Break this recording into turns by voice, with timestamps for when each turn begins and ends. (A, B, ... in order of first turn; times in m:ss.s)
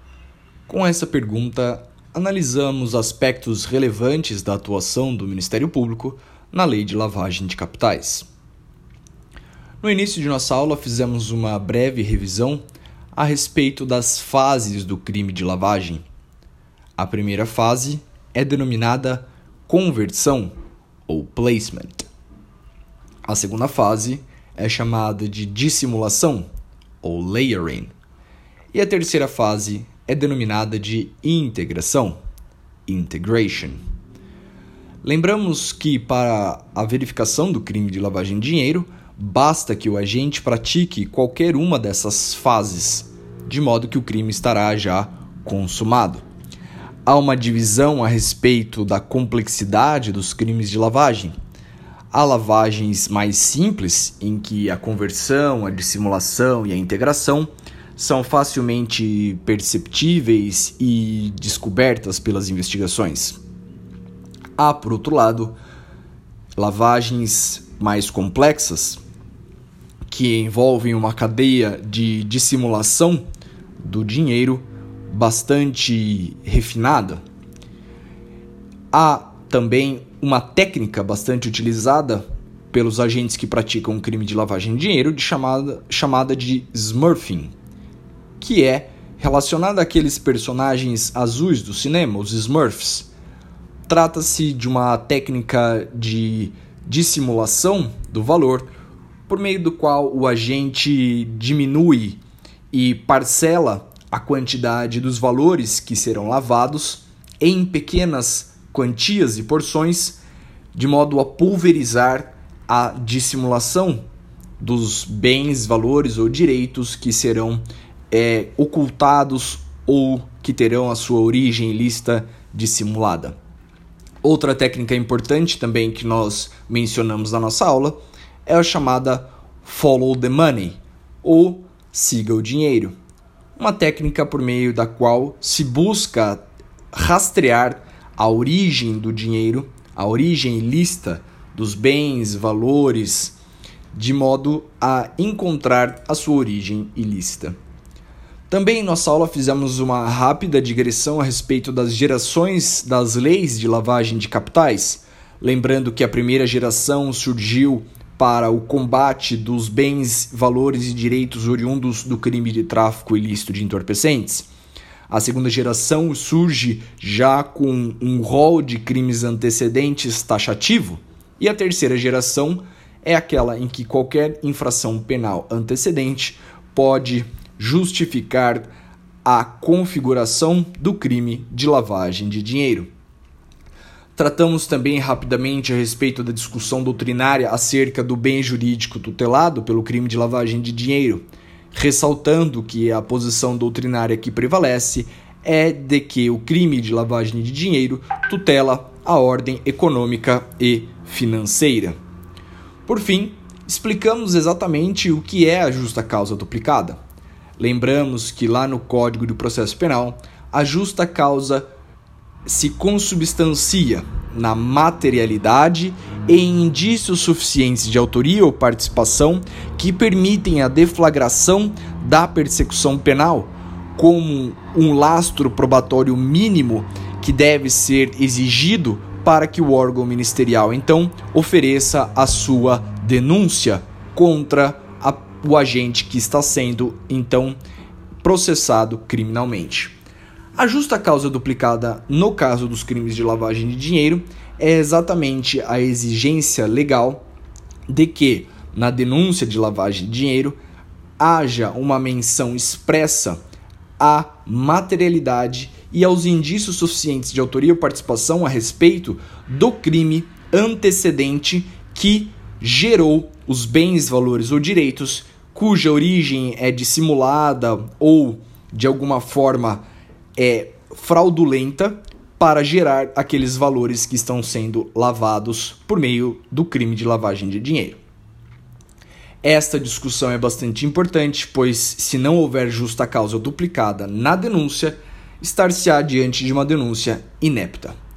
0:00.7-0:08.3 A
0:09.8-0:12.6 A
0:13.1-0:16.0 A
0:17.0-0:20.5 A
0:21.1-0:22.1 A
0:23.2-0:26.5 A
0:27.0-0:27.9 A
0:28.7-0:32.2 A
0:32.9-0:33.8 A
0:35.0-0:46.2 A
0:47.0-0:51.3 A
0:52.1-1:03.4 A
1:04.6-1:05.5 A
1:06.6-1:09.0 A
1:10.1-1:13.2 A
1:13.8-1:17.2 A
1:18.9-1:27.5 A
1:28.4-1:33.1 A
1:33.9-1:38.7 A
1:39.3-1:42.2 A
1:42.7-1:50.2 A
1:50.7-1:54.0 A
1:54.6-2:03.4 A
2:04.2-2:13.0 A
2:13.6-2:23.4 A
2:23.9-2:27.6 A
2:28.5-2:44.5 A
2:45.1-2:58.7 A
2:59.2-3:02.9 A
3:04.2-3:22.0 A
3:22.8-3:27.0 A
3:27.6-3:31.7 A
3:32.4-3:57.6 A
3:58.2-3:59.9 A
4:00.6-4:07.2 A
4:07.9-4:10.6 A
4:11.2-4:13.4 A
4:14.0-4:29.8 A
4:30.4-4:38.0 A
4:39.4-4:48.0 A